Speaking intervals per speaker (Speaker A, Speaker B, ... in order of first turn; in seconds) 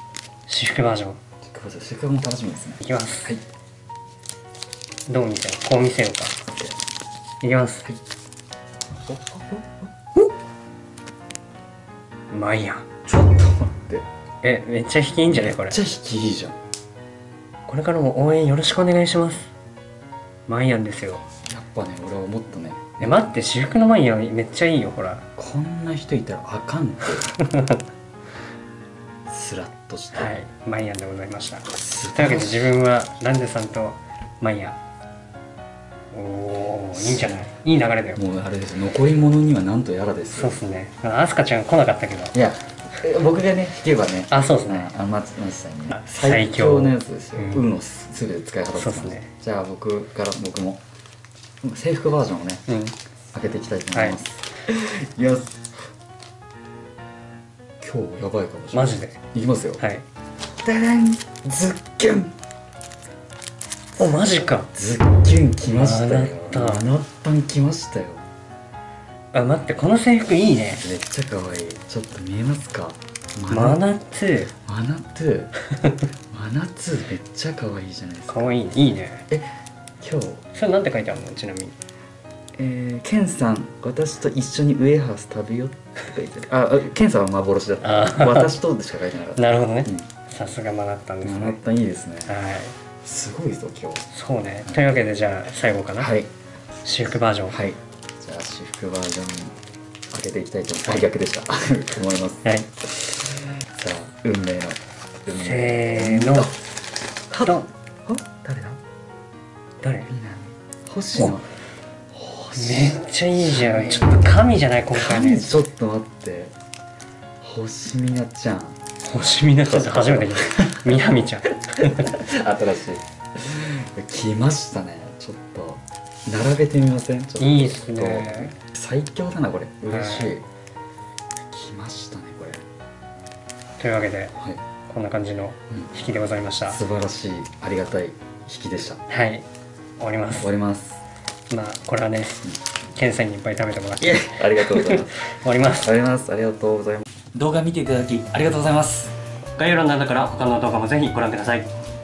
Speaker A: 0.5-1.2, 2.8-3.3, 5.1-6.3, 7.4-7.9, 12.3-12.8, 14.4-15.8, 17.7-19.5, 20.5-21.2, 23.0-25.2, 27.3-27.8, 30.1-34.8, 36.1-38.2, 40.3-42.3, 44.3-44.9, 45.9-47.6, 48.7-49.3, 52.7-52.9, 53.9-54.2, 58.7-59.1, 59.8-60.0, 64.0-64.7, 65.7-66.8, 69.3-70.9, 73.5-74.5, 75.8-76.0, 78.3-79.2, 80.5-81.7, 87.8-88.5, 89.3-91.6, 92.3-92.7, 94.1-96.1, 96.8-97.5, 105.3-106.5, 109.8-110.1, 112.5-115.6, 119.0-122.1, 127.4-128.5, 129.9-130.3, 133.8-134.3, 134.9-136.8, 139.1-139.4, 140.0-140.5, 141.5-145.9, 149.6-151.7
Speaker B: 1.4-3.4, 6.5-6.8, 9.1-9.9, 13.1-14.1, 15.3-16.6, 21.4-23.4, 25.4-27.3, 29.3-30.3, 31.7-32.7, 36.9-37.4, 38.1-40.6, 42.3-50.8, 51.6-52.6, 53.3-55.6, 57.8-59.8, 60.6-62.3, 64.7-68.2, 70.8-73.8, 74.6-75.5, 76.3-78.5, 80.0-80.4, 82.5-90.1, 91.2-92.3, 93.0-94.1, 94.6-95.0, 96.0-96.3, 97.5-99.5, 100.1-106.6, 107.3-108.8, 110.1-111.5, 112.1-114.2, 114.9-116.5, 117.4-118.8, 119.6-121.0, 121.8-130.4, 131.5-132.6, 134.3-134.6, 136.7-139.0, 140.4-141.0, 144.0-145.2, 145.7-149.1